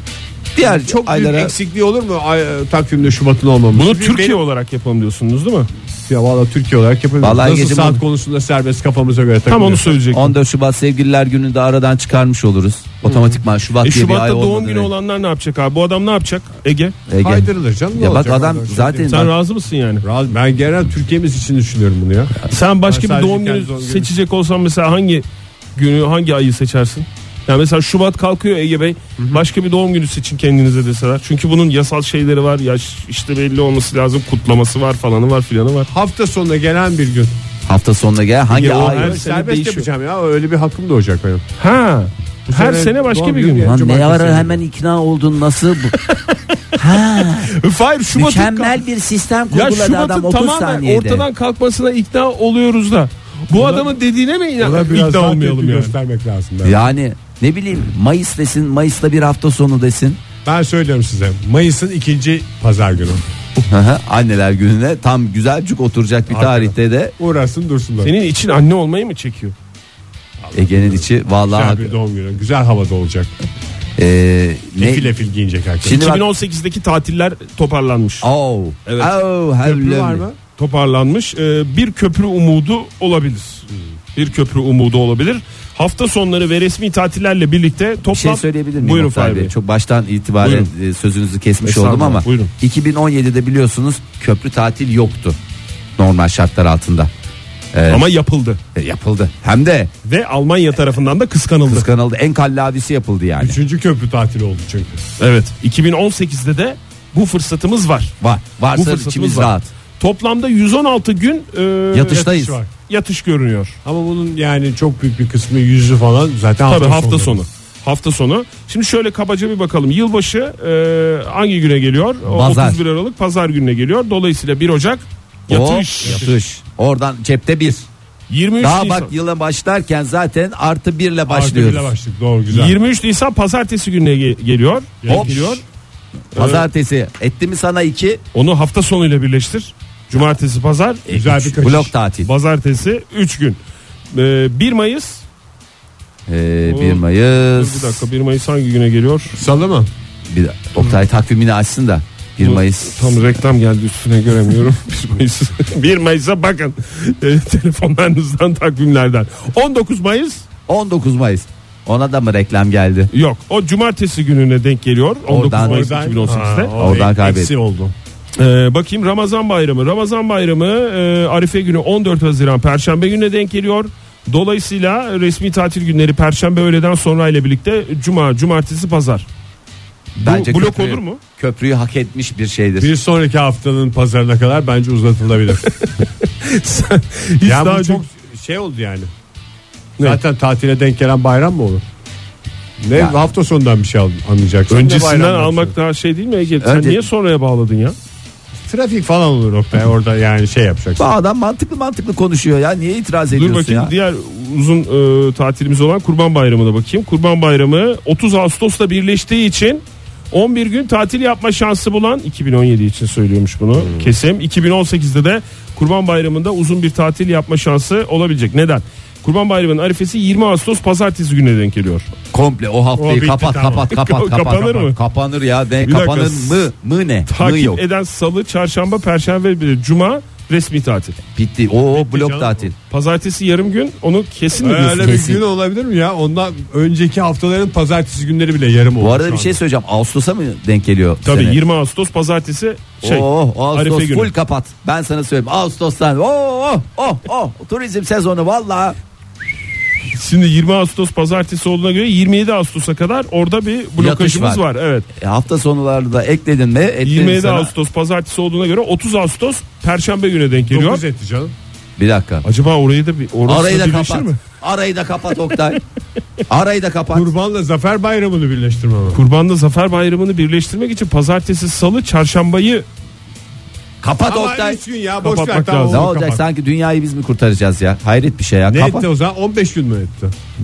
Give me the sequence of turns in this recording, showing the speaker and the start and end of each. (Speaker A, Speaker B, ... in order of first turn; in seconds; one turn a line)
Speaker A: 0.6-1.6
Speaker B: 0.6-4.4
Speaker C: 3.7-5.7
Speaker B: 6.1-9.9
Speaker A: 7.2-8.0
Speaker C: 9.5-10.3
Speaker A: 10.1-14.9
Speaker C: 13.8-16.9
Speaker A: 17.1-19.3
Speaker B: 17.2-19.2
Speaker C: 19.1-20.1
Speaker B: 20.0-24.1
Speaker C: 22.5-35.9
Speaker B: 29.2-29.4
Speaker B: 35.9-37.4
Speaker A: 37.7-39.2
Speaker C: 38.5-39.9
Speaker B: 38.6-41.4
Speaker C: 41.6-43.8
Speaker B: 42.5-44.6
Speaker A: 43.7-46.0
Speaker C: 46.1-48.8
Speaker A: 46.8-47.5
Speaker A: 48.1-51.3
Speaker C: 49.5-56.0
Speaker B: 53.5-53.9
Speaker B: 54.6-56.9
Speaker A: 56.6-60.2
Speaker B: 60.5-63.2
Speaker A: 63.6-67.1
Speaker B: 66.3-68.1
Speaker C: 68.0-69.5
Speaker B: 70.4-73.3
Speaker A: 70.5-71.9
Speaker A: 74.0-75.1
Speaker B: 74.8-76.0
Speaker A: 75.8-76.2
Speaker C: 75.8-78.3
Speaker A: 78.2-80.2
Speaker C: 78.9-79.1
Speaker B: 79.6-80.4
Speaker C: 80.6-89.5
Speaker A: 88.1-95.4
Speaker C: 90.4-90.7
Speaker C: 91.6-92.5
Speaker A: 96.0-97.1
Speaker A: 97.7-98.1
Speaker C: 97.9-98.6
Speaker A: 98.8-99.9
Speaker C: 100.0-101.9
Speaker A: 101.7-103.6
Speaker B: 103.4-105.0
Speaker C: 105.2-108.2
Speaker A: 108.2-109.7
Speaker C: 108.7-112.3
Speaker A: 111.9-112.6
Speaker B: 112.1-112.7
Speaker C: 112.9-113.8
Speaker B: 113.8-117.4
Speaker C: 116.7-126.3
Speaker A: 122.2-122.8
Speaker A: 125.5-127.9
Speaker B: 126.0-126.4
Speaker C: 128.3-129.1
Speaker A: 128.6-131.9
Speaker B: 131.3-132.8
Speaker C: 132.5-135.6
Speaker B: 135.0-135.5
Speaker A: 135.1-135.6
Speaker A: 136.3-138.2
Speaker C: 136.3-136.7
Speaker C: 138.3-141.1
Speaker B: 141.1-141.9
Speaker A: 141.1-142.3
Speaker C: 142.2-143.6
Speaker C: 144.1-145.2
Speaker A: 146.3-148.0
Speaker C: 146.7-149.4
Speaker B: 149.4-149.9
Speaker A: 150.3-153.3
Speaker C: 152.4-160.5
Speaker A: 160.7-163.1
Speaker C: 163.1-166.7
Speaker A: 165.3-165.9
Speaker B: 165.6-167.9
Speaker A: 166.8-167.5
Speaker C: 168.4-179.3
Speaker A: 180.2-182.9
Speaker C: 180.2-181.2
Speaker B: 182.8-185.7
Speaker C: 185.6-188.0
Speaker B: 187.4-189.1
Speaker B: 190.0-191.8
Speaker B: 192.8-195.8
Speaker C: 194.7-198.0
Speaker A: 196.6-197.1
Speaker B: 198.6-201.1
Speaker A: 201.0-203.9
Speaker C: 203.3-222.1
Speaker B: 213.8-214.1
Speaker A: 222.3-227.8
Speaker B: 223.0-223.9
Speaker C: 223.9-225.0
Speaker C: 225.8-226.7
Speaker C: 227.3-231.2
Speaker A: 231.3-232.7
Speaker B: 231.9-232.7
Speaker C: 232.9-235.4
Speaker B: 234.6-239.6
Speaker A: 239.0-241.6
Speaker C: 241.2-244.3
Speaker A: 243.0-249.0
Speaker C: 250.1-255.1
Speaker A: 254.0-257.7
Speaker C: 257.0-261.0
Speaker B: 260.7-261.5
Speaker A: 262.0-262.4
Speaker C: 262.4-264.4
Speaker A: 263.5-265.8
Speaker A: 266.5-267.3
Speaker B: 267.1-269.2
Speaker C: 269.1-272.9
Speaker A: 274.0-274.8
Speaker B: 274.2-276.4
Speaker C: 275.2-276.0
Speaker A: 275.9-279.1
Speaker B: 278.7-280.3